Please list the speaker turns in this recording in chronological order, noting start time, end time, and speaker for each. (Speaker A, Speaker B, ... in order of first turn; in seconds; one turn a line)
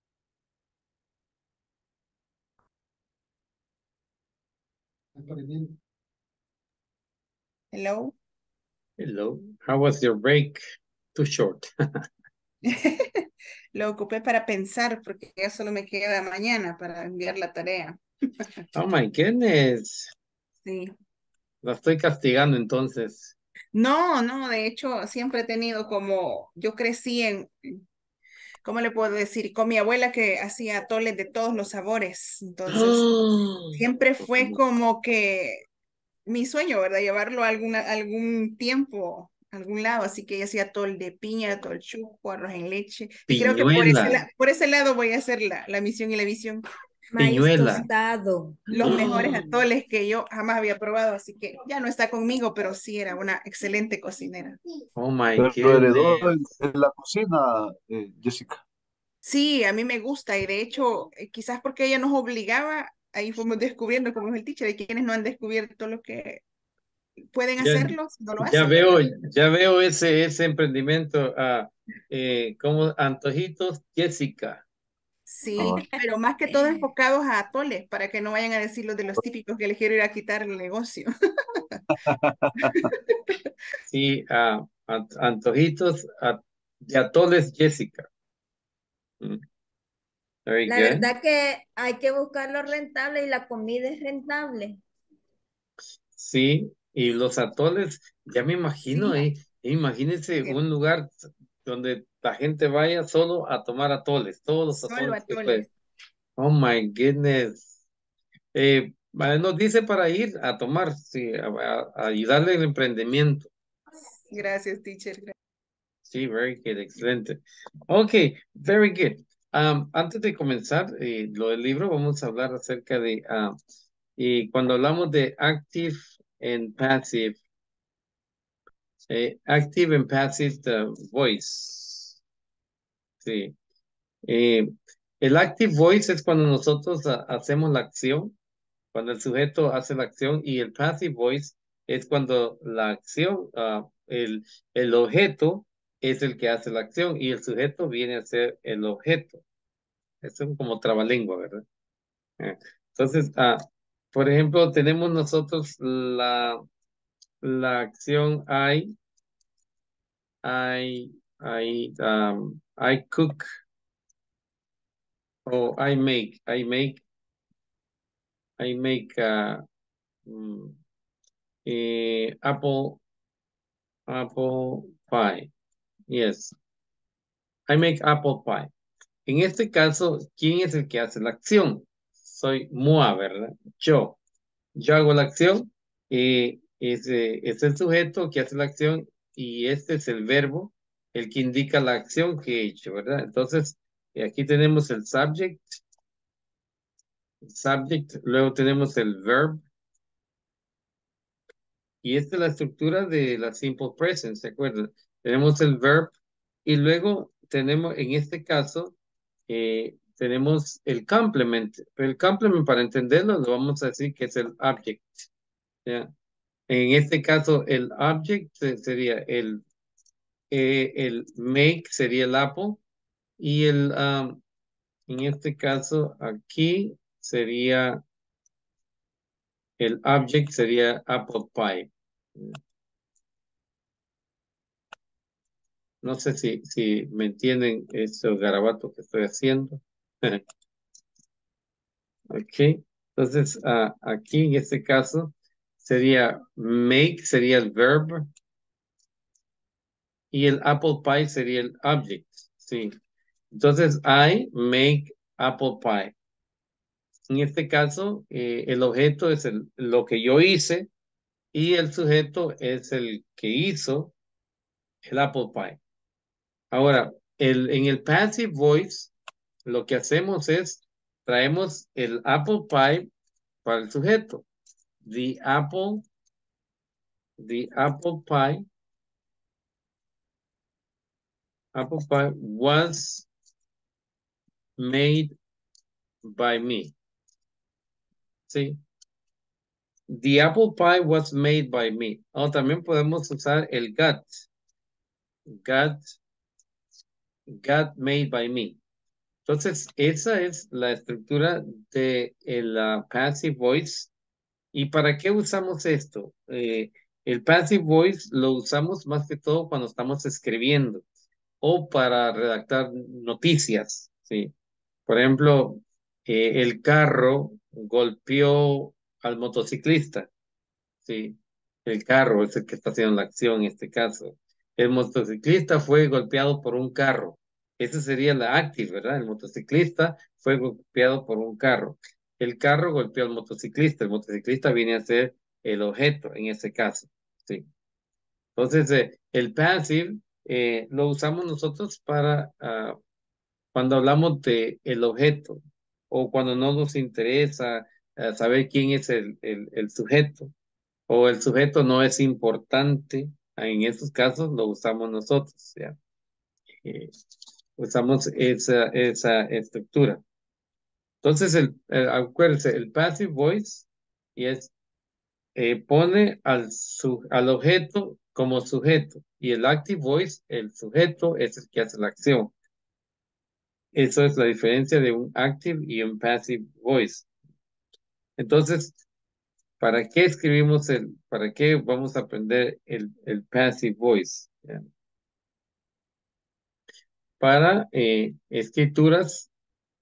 Speaker A: 5.2-5.7
Speaker B: 7.7-8.1
Speaker A: 9.0-10.6
Speaker A: 11.1-12.0
Speaker B: 12.6-18.5
Speaker A: 18.7-20.1
Speaker B: 20.6-20.9
Speaker A: 21.6-23.3
Speaker B: 23.7-27.8
Speaker B: 28.6-33.1
Speaker A: 32.7-33.8
Speaker B: 33.7-35.6
Speaker B: 36.2-46.6
Speaker A: 43.3-44.2
Speaker C: 47.1-49.4
Speaker A: 47.2-47.9
Speaker B: 48.7-54.6
Speaker A: 48.8-49.4
Speaker A: 55.0-56.3
Speaker D: 55.4-58.6
Speaker B: 59.2-66.4
Speaker B: 67.3-69.0
Speaker A: 67.6-74.6
Speaker B: 75.3-81.8
Speaker D: 75.6-75.8
Speaker D: 82.0-82.9
Speaker B: 82.8-83.4
Speaker A: 83.9-88.1
Speaker A: 90.5-91.1
Speaker C: 90.7-94.8
Speaker A: 96.2-101.1
Speaker A: 101.6-105.7
Speaker B: 104.7-105.7
Speaker A: 106.4-107.7
Speaker A: 108.5-113.5
Speaker B: 114.2-115.3
Speaker A: 116.1-123.5
Speaker A: 124.2-127.4
Speaker A: 129.1-132.2
Speaker A: 133.2-133.5
Speaker A: 134.3-134.7
Speaker A: 135.2-138.3
Speaker A: 138.9-149.4
Speaker A: 150.2-151.6
Speaker A: 152.4-156.6
Speaker A: 157.4-158.9
Speaker A: 160.4-163.4
Speaker A: 165.4-167.0
Speaker A: 168.6-169.6
Speaker A: 170.3-170.8
Speaker A: 171.7-173.0
Speaker A: 174.1-175.5
Speaker A: 176.1-176.5
Speaker A: 177.7-178.7
Speaker A: 179.3-184.2
Speaker A: 184.8-195.8
Speaker A: 197.4-199.6
Speaker A: 202.0-206.1
Speaker A: 206.7-208.9
Speaker A: 209.5-215.3
Speaker A: 216.7-219.6
Speaker A: 220.5-222.8
Speaker A: 223.4-224.4
Speaker A: 225.1-228.0
Speaker A: 229.8-232.6
Speaker A: 236.0-240.4
Speaker A: 242.3-248.3
Speaker A: 250.3-252.9
Speaker A: 253.5-256.1
Speaker A: 257.3-260.9
Speaker A: 261.5-264.1
Speaker A: 265.1-265.8
Speaker A: 266.7-269.1
Speaker A: 269.6-273.1
Speaker A: 273.6-274.4
Speaker A: 275.0-276.0
Speaker A: 277.4-278.6
Speaker A: 281.7-283.3
Speaker A: 284.8-285.3
Speaker A: 286.2-286.9
Speaker A: 288.5-288.8
Speaker A: 290.1-294.3
Speaker A: 295.5-296.0
Speaker A: 297.5-298.8
Speaker A: 299.4-304.1
Speaker A: 304.7-311.0
Speaker A: 311.6-314.5
Speaker A: 315.1-320.3
Speaker A: 321.0-337.6
Speaker A: 338.6-343.0
Speaker A: 343.7-350.5
Speaker A: 351.1-355.9
Speaker A: 356.8-357.1
Speaker A: 357.8-360.2
Speaker A: 361.2-364.7
Speaker A: 365.6-372.5
Speaker A: 373.9-377.2
Speaker A: 378.4-379.0
Speaker A: 379.8-384.8
Speaker A: 387.4-389.5